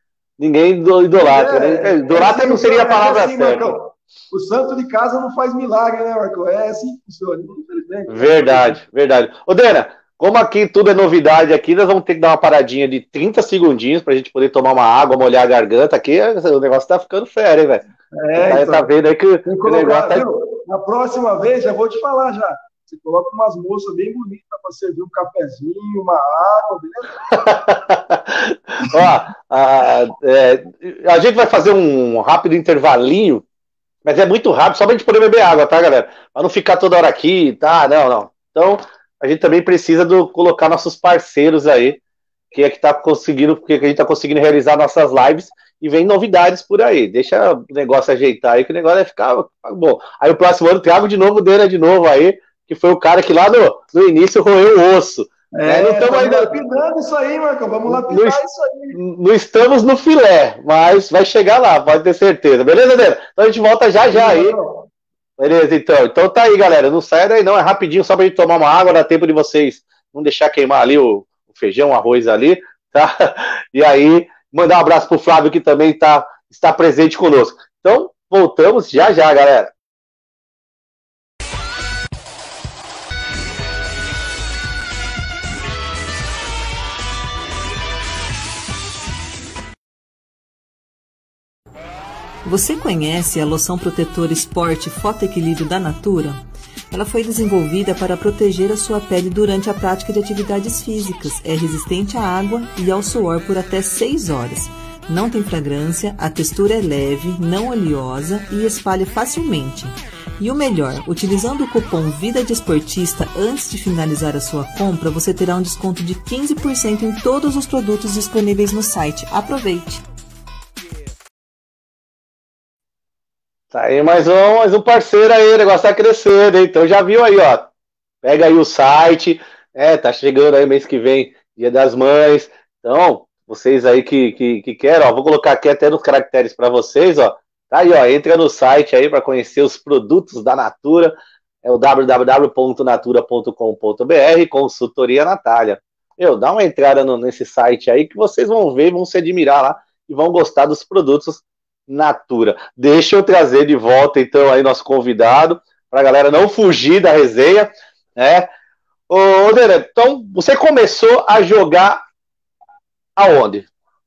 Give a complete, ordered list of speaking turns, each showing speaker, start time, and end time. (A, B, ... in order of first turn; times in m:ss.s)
0:00.4-0:03.7 A
0:01.2-0:08.8 B
0:08.1-0:20.2 A
0:18.1-0:18.9 B
0:19.4-0:27.2 B
0:27.3-0:33.4 A
0:34.0-0:42.0 A
0:42.5-0:56.5 A
0:55.5-0:59.0 B
0:57.8-0:58.4 A
0:58.9-1:04.5 A
1:04.1-1:04.9 B
1:05.4-1:19.7 A
1:32.4-2:00.0 C
2:03.7-2:07.7 A
2:08.2-2:38.5 A
2:39.1-2:42.0 A
2:43.2-2:43.6 A